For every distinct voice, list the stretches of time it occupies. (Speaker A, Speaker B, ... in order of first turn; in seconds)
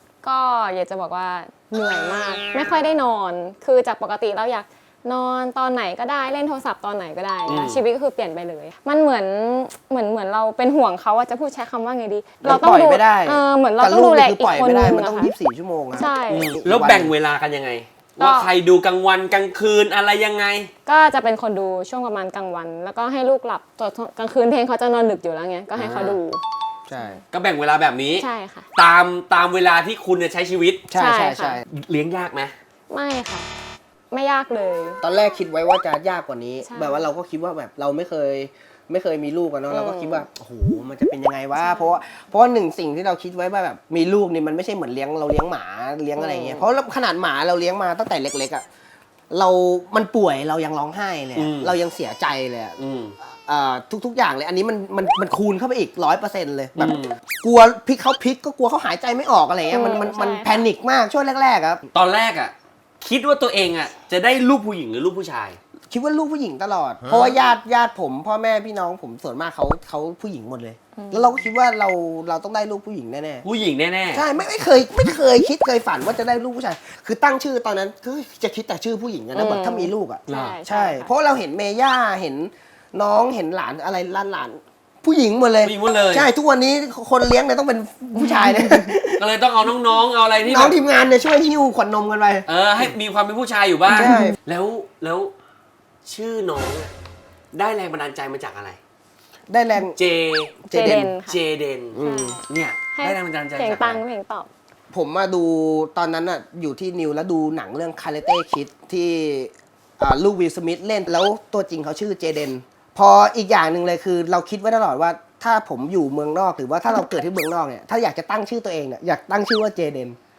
Speaker A: 0.2-15.3, 16.0-16.5, 18.2-18.5, 20.9-26.4, 28.2-28.7, 30.9-31.6, 32.9-33.5, 34.1-35.0, 36.6-37.0, 39.7-40.2, 41.6-42.0, 46.2-46.6, 59.7-60.6, 71.0-71.4, 79.3-81.1, 88.2-88.9, 100.7-101.4, 102.0-102.4, 102.9-104.5
Speaker B: 7.5-7.8, 16.3-20.7, 25.8-26.2, 27.3-30.9, 31.7-32.5, 51.4-51.7, 52.8-53.1, 56.8-57.2, 61.9-65.6, 73.5-74.2, 80.3-80.6, 85.6-86.3, 89.2-90.8, 92.5-95.3, 96.0-96.9, 97.5-98.8, 100.0-104.0
Speaker C: 12.4-17.1, 26.9-27.2, 30.9-31.7, 35.0-48.6, 49.3-52.8, 53.5-61.8, 65.9-73.5, 74.1-89.2, 90.5-92.5, 93.9-94.3, 99.5-100.0, 100.7-101.1, 101.9-102.4, 104.9-120.2